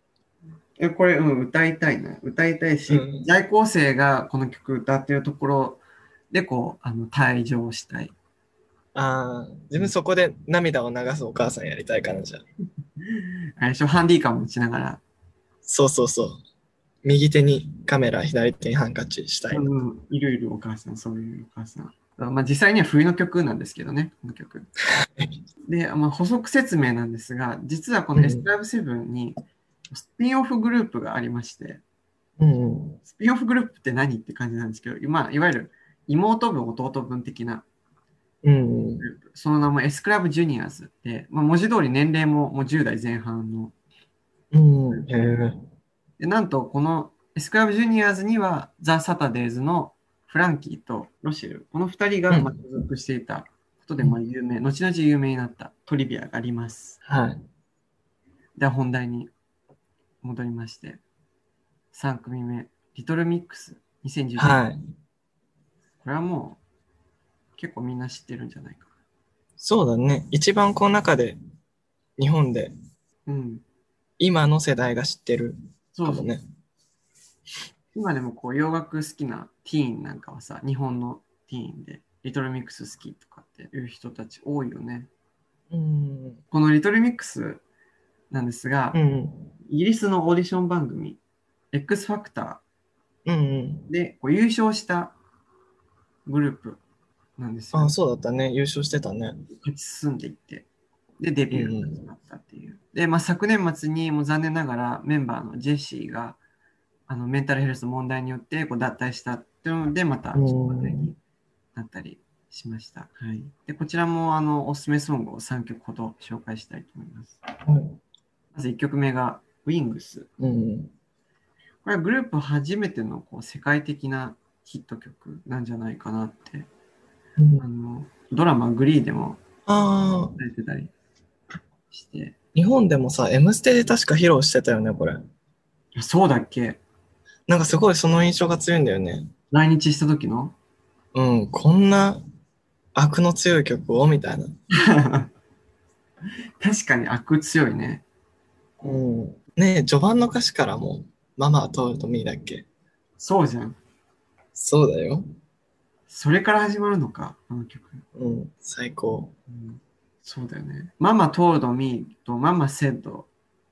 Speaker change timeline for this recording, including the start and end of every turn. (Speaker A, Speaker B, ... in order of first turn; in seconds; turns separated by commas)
Speaker A: 0.8-8.1, Speaker B: 2.9-3.3, Speaker B: 8.9-12.4, Speaker A: 13.2-15.0, Speaker B: 15.6-16.4, Speaker B: 17.0-19.7, Speaker A: 19.5-24.7, Speaker B: 24.9-25.4, Speaker A: 25.7-29.4, Speaker B: 28.1-28.5, Speaker A: 29.9-31.8, Speaker B: 32.4-33.0, Speaker A: 33.0-37.6, Speaker B: 38.4-39.1, Speaker A: 39.0-43.7, Speaker B: 44.5-45.6, Speaker A: 46.2-57.0, Speaker B: 52.3-52.5, Speaker B: 57.0-57.4, Speaker A: 58.6-59.3, Speaker A: 60.2-61.0, Speaker A: 61.9-64.6, Speaker B: 64.4-64.8, Speaker A: 66.0-66.6, Speaker A: 67.6-68.9, Speaker B: 69.6-71.4, Speaker B: 72.2-72.7, Speaker A: 73.2-73.6, Speaker B: 74.2-76.4, Speaker A: 75.9-76.3, Speaker A: 77.9-85.1, Speaker B: 85.7-86.4, Speaker A: 86.5-87.6, Speaker A: 88.3-89.0, Speaker B: 88.9-89.5, Speaker A: 89.7-91.2, Speaker A: 91.7-92.6, Speaker B: 93.2-93.9, Speaker A: 93.9-95.1, Speaker A: 96.2-96.8, Speaker A: 97.4-97.9, Speaker B: 97.7-99.4, Speaker A: 99.5-100.7, Speaker A: 101.2-106.4, Speaker B: 101.5-102.0, Speaker A: 107.1-111.2, Speaker B: 110.3-111.1, Speaker A: 111.7-117.4, Speaker B: 117.6-118.0, Speaker A: 118.5-120.3, Speaker B: 120.4-120.9, Speaker A: 121.8-126.7, Speaker B: 127.4-127.6, Speaker A: 127.6-129.4, Speaker B: 129.7-130.4, Speaker A: 130.4-130.9, Speaker A: 131.9-132.3, Speaker B: 132.5-135.2, Speaker A: 135.9-136.8, Speaker B: 137.5-139.3, Speaker A: 139.5-140.5, Speaker B: 141.1-142.2, Speaker B: 142.9-144.5, Speaker A: 144.7-145.3, Speaker A: 146.6-148.0, Speaker B: 148.8-152.7, Speaker A: 153.2-153.8, Speaker B: 154.5-155.3, Speaker A: 156.1-158.0, Speaker B: 158.1-159.3, Speaker A: 159.5-163.3